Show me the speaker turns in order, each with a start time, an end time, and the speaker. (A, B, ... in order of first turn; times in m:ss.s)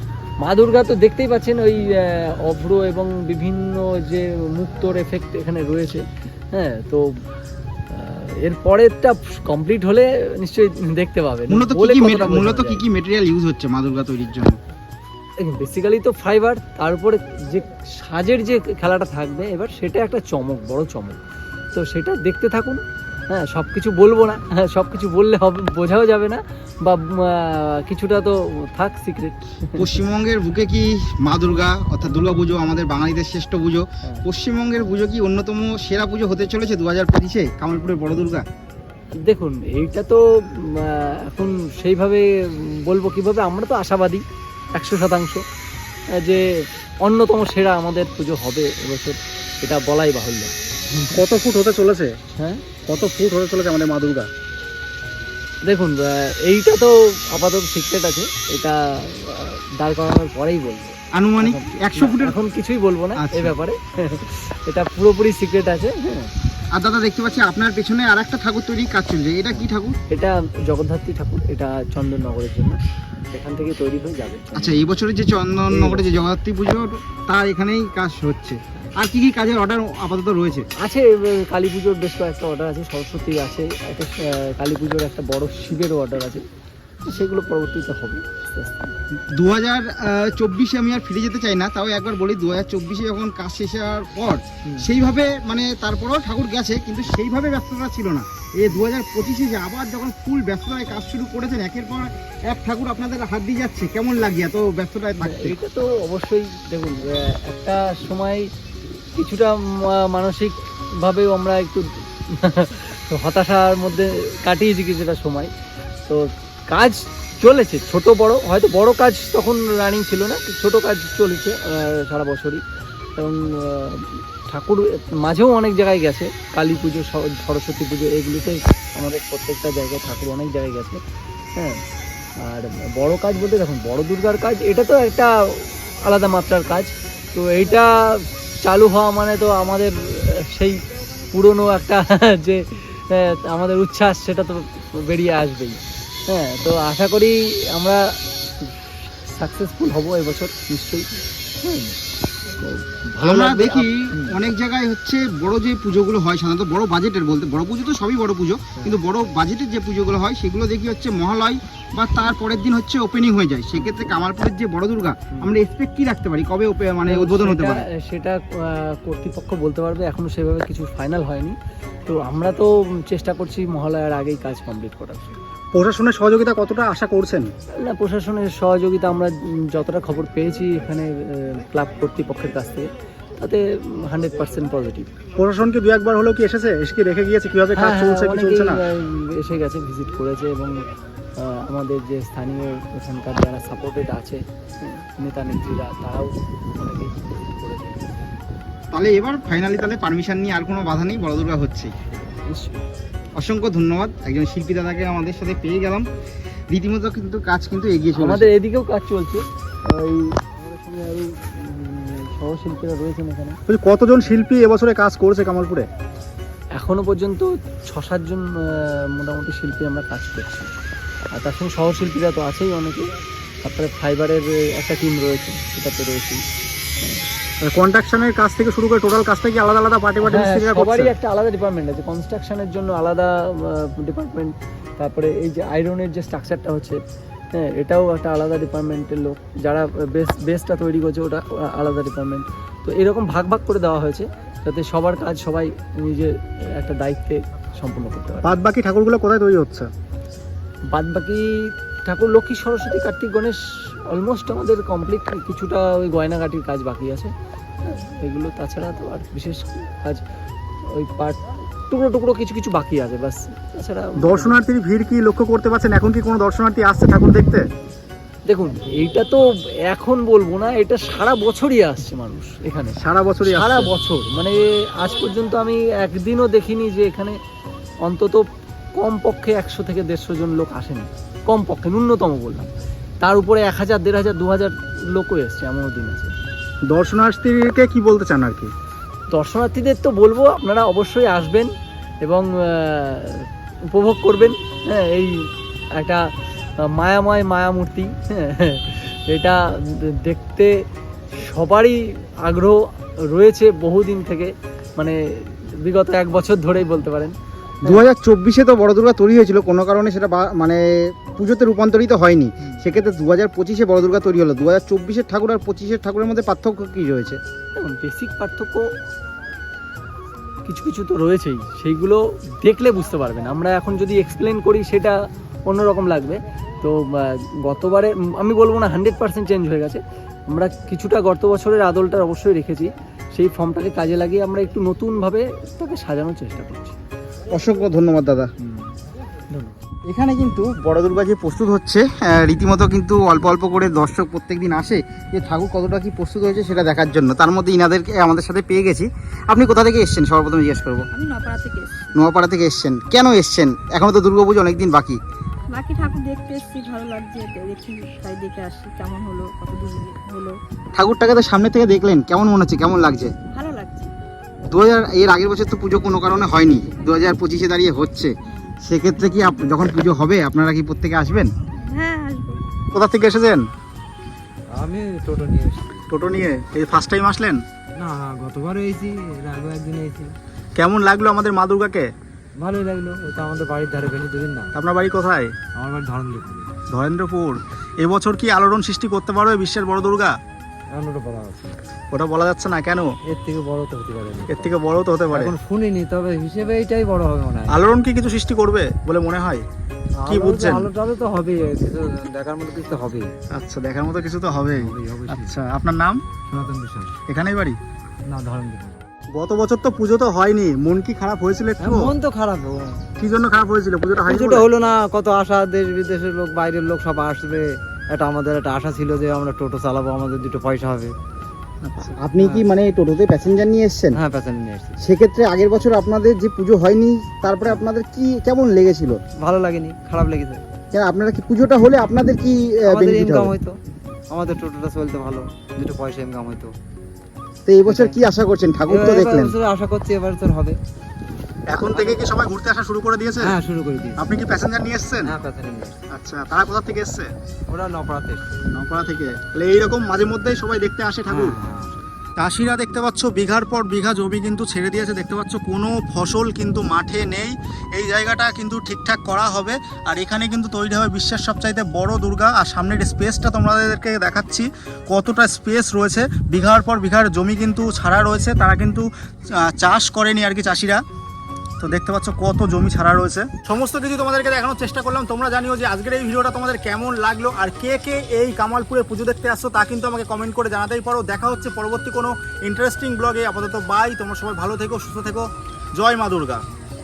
0:00.4-0:07.1 A
0:07.9-0:12.8 A
0:11.5-0:14.6 B
0:15.4-0:21.2 A
0:21.7-0:30.0 A
0:29.8-0:38.4 B
0:39.2-0:44.2 A
0:44.8-0:45.4 A
0:46.2-0:46.5 A
0:47.0-0:51.1 A
0:51.2-0:52.1 C
0:52.4-0:52.6 A
0:52.9-0:54.3 C
0:55.6-1:06.3 A
1:01.1-1:02.4 B
1:03.2-1:03.5 B
1:06.7-1:10.0 B
1:09.5-1:12.8 A
1:13.3-1:14.7 A
1:14.6-1:20.7 B
1:15.7-1:16.2 A
1:20.8-1:26.4 A
1:27.0-1:28.9 A
1:29.4-1:45.6 B
1:45.2-1:48.5 A
1:49.1-1:55.5 A
1:56.1-2:02.6 A
2:03.2-2:11.0 A
2:11.6-2:11.8 A
2:12.4-2:32.0 A
2:32.5-2:34.4 A
2:33.2-2:47.8 B
2:47.1-2:51.6 A
2:52.1-2:55.3 A
2:55.8-2:57.5 C
2:57.8-3:02.9 A
3:03.4-3:05.1 A
3:05.4-3:08.8 C
3:07.8-3:10.8 A
3:11.4-3:18.1 A
3:18.9-3:21.9 B
3:22.4-3:22.8 A
3:23.4-3:26.1 B
3:26.7-3:28.5 B
3:28.2-3:33.6 A
3:33.7-3:35.9 C
3:36.8-3:40.7 A
3:41.4-3:43.1 A
3:43.6-3:46.4 A
3:47.7-3:51.1 C
3:50.2-3:57.0 A
3:57.6-4:08.5 A
4:08.4-4:09.9 C
4:10.9-4:17.3 A
4:17.8-4:20.2 A
4:20.9-4:24.6 A
4:24.2-4:27.6 C
4:28.5-4:37.4 A
4:33.0-4:33.9 C
4:38.0-4:38.4 A
4:39.0-4:42.7 A
4:43.2-4:46.3 A
4:46.9-4:48.7 C
4:49.3-4:51.7 A
4:52.2-4:55.4 A
4:56.0-4:56.2 A
4:56.8-5:00.8 A
5:01.4-5:08.0 A
5:07.8-5:17.4 B
5:17.8-5:18.9 A
5:20.6-5:37.0 A
5:37.5-5:38.5 B
5:38.6-5:39.0 A
5:39.5-5:39.8 A
5:40.1-5:51.1 B
5:51.1-5:52.2 D
5:52.2-5:55.2 B
5:55.7-6:00.6 D
6:01.0-6:03.3 B
6:03.5-6:04.1 D
6:04.7-6:08.3 B
6:08.5-6:08.7 D
6:08.8-6:11.5 B
6:11.8-6:12.6 D
6:13.0-6:13.6 C
6:14.7-6:16.0 E
6:16.1-6:17.6 C
6:18.0-6:20.4 E
6:20.8-6:22.1 C
6:22.6-6:24.7 E
6:24.8-6:25.5 C
6:25.8-6:26.7 E
6:26.9-6:30.3 C
6:30.9-6:31.8 E
6:32.1-6:33.1 C
6:33.3-6:34.7 E
6:34.5-6:35.5 C
6:35.3-6:37.8 E
6:37.7-6:39.6 C
6:40.2-6:43.3 E
6:40.3-6:40.9 C
6:43.6-6:46.2 C
6:44.8-6:45.6 E
6:46.5-6:47.2 E
6:47.3-6:47.8 C
6:48.3-6:49.1 E
6:49.3-6:52.1 C
6:51.8-6:53.0 E
6:53.2-6:54.7 C
6:54.2-7:01.2 E
7:02.0-7:04.2 B
7:02.4-7:02.7 E
7:04.2-7:05.0 E
7:05.0-7:09.2 B
7:09.4-7:10.6 E
7:10.9-7:13.6 B
7:12.8-7:13.8 E
7:14.3-7:16.7 E
7:17.7-7:19.6 B
7:17.9-7:18.2 E
7:18.9-7:20.8 E
7:21.7-7:23.6 C
7:21.9-7:22.3 E
7:23.4-7:24.2 E
7:24.2-7:25.4 C
7:25.2-7:26.0 E
7:26.1-7:27.3 C
7:27.7-7:28.6 E
7:28.7-7:31.6 C
7:31.3-7:32.0 E
7:32.4-7:49.0 C
7:49.7-7:51.0 C
7:51.8-8:05.4 C
8:06.0-8:06.6 C